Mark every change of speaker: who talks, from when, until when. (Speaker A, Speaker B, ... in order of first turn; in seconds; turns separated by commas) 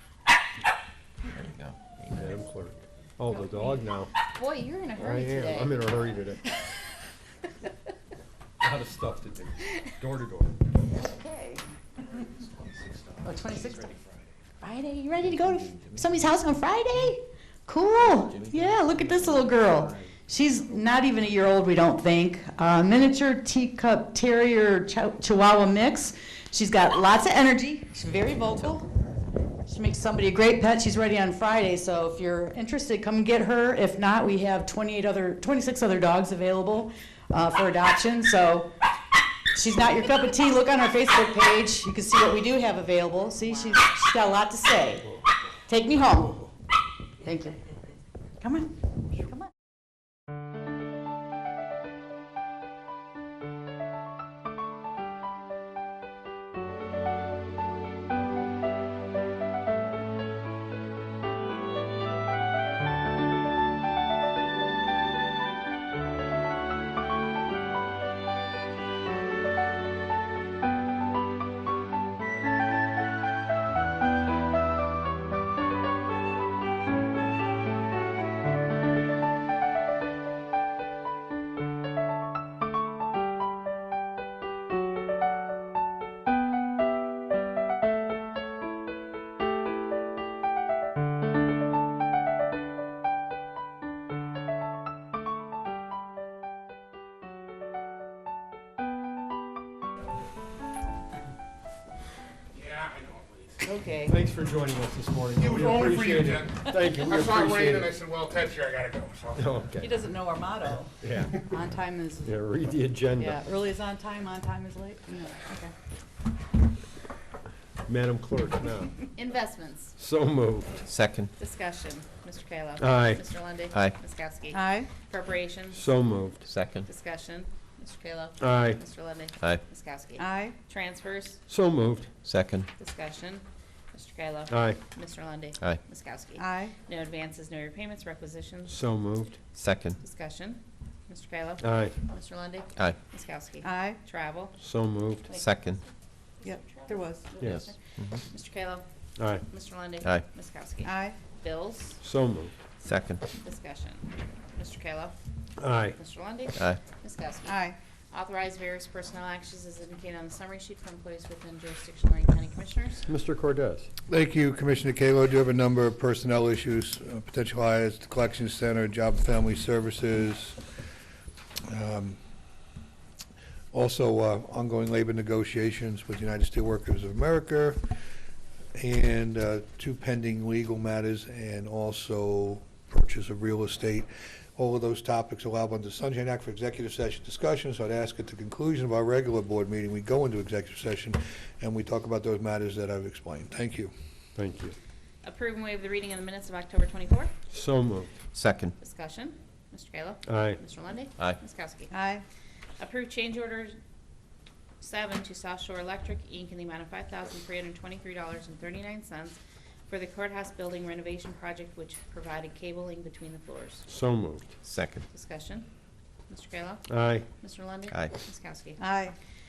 Speaker A: 1.3-2.3, Speaker B: 2.1-4.3, Speaker C: 3.4-6.0, Speaker B: 5.0-6.4, Speaker B: 8.6-10.6, Speaker D: 10.9-11.6, Speaker D: 13.2-14.0, Speaker D: 14.6-28.9, Speaker D: 29.6-38.7, Speaker D: 39.5-46.5, Speaker D: 47.2-47.6, Speaker D: 48.4-48.7, Speaker E: 102.7-103.4, Speaker D: 103.8-104.0, Speaker B: 104.0-108.0, Speaker E: 105.5-109.4, Speaker B: 109.4-110.1, Speaker D: 109.8-112.3, Speaker B: 111.0-111.5, Speaker B: 112.2-113.5, Speaker D: 113.2-115.7, Speaker B: 117.9-119.0, Speaker C: 119.1-120.0, Speaker B: 120.0-120.8, Speaker A: 120.8-121.3, Speaker C: 121.4-125.9, Speaker B: 122.8-123.2, Speaker D: 124.5-124.9, Speaker B: 125.7-126.4, Speaker A: 126.4-126.9, Speaker C: 126.9-131.4, Speaker B: 128.4-128.8, Speaker D: 130.2-130.6, Speaker B: 131.5-132.1, Speaker A: 132.2-132.7, Speaker C: 132.8-138.8, Speaker B: 134.5-134.8, Speaker D: 136.4-136.7, Speaker B: 138.7-139.4, Speaker A: 139.6-140.0, Speaker C: 140.0-144.6, Speaker B: 141.6-142.0, Speaker D: 143.6-144.0, Speaker B: 144.6-145.3, Speaker A: 145.3-145.8, Speaker C: 146.4-148.8, Speaker D: 146.4-147.3, Speaker A: 147.4-148.2, Speaker B: 149.2-149.5, Speaker C: 149.5-152.0, Speaker D: 150.8-151.2, Speaker B: 152.0-152.5, Speaker A: 152.8-153.2, Speaker C: 153.4-155.2, Speaker B: 155.6-156.0, Speaker C: 156.0-163.1, Speaker A: 156.6-156.8, Speaker D: 157.5-157.8, Speaker B: 163.1-163.9, Speaker F: 164.1-170.6, Speaker F: 171.7-172.2, Speaker F: 173.7-177.8, Speaker F: 178.8-193.9, Speaker B: 194.4-194.8, Speaker C: 195.2-197.4, Speaker B: 197.5-198.1, Speaker A: 198.3-198.8, Speaker C: 198.8-201.9, Speaker B: 200.3-200.6, Speaker D: 201.9-202.2, Speaker C: 202.8-203.8, Speaker C: 204.8-213.9, Speaker B: 213.9-214.5, Speaker A: 214.6-215.1, Speaker C: 215.1-215.7, Speaker C: 216.3-218.8, Speaker B: 216.9-217.3, Speaker D: 218.8-219.2